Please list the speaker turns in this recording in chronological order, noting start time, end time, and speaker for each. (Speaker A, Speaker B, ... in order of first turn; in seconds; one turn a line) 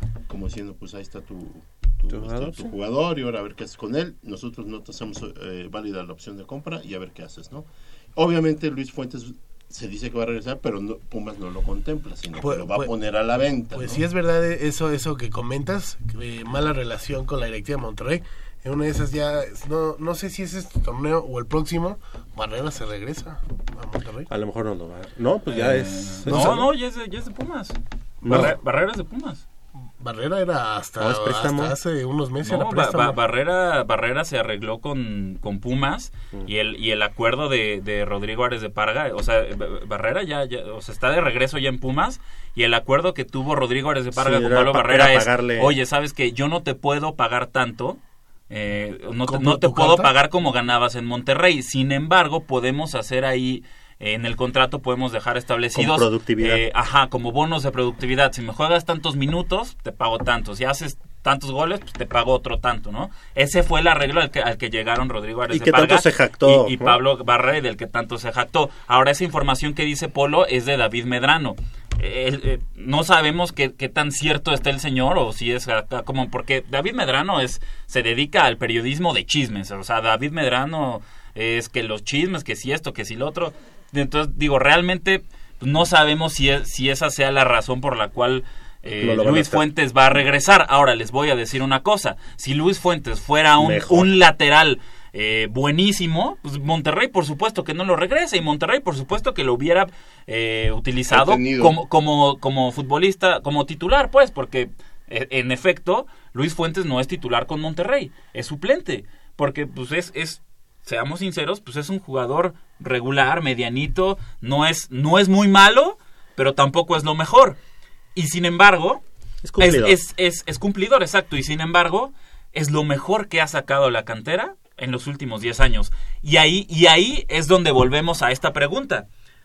Speaker A: 0.3-14.0
Speaker B: 2.1-2.7
Speaker C: 12.4-12.9
Speaker C: 13.7-24.3
Speaker B: 24.3-26.7
Speaker D: 25.5-29.4
Speaker B: 28.2-28.6
Speaker C: 30.0-33.2
Speaker B: 31.0-31.8
Speaker D: 32.5-117.6
Speaker B: 44.1-45.8
Speaker C: 49.3-50.1
Speaker B: 55.7-56.6
Speaker B: 65.5-67.0
Speaker B: 88.9-89.6
Speaker B: 93.6-94.1
Speaker A: 101.1-101.8
Speaker D: 118.2-119.0
Speaker B: 119.4-120.0
Speaker D: 119.6-129.1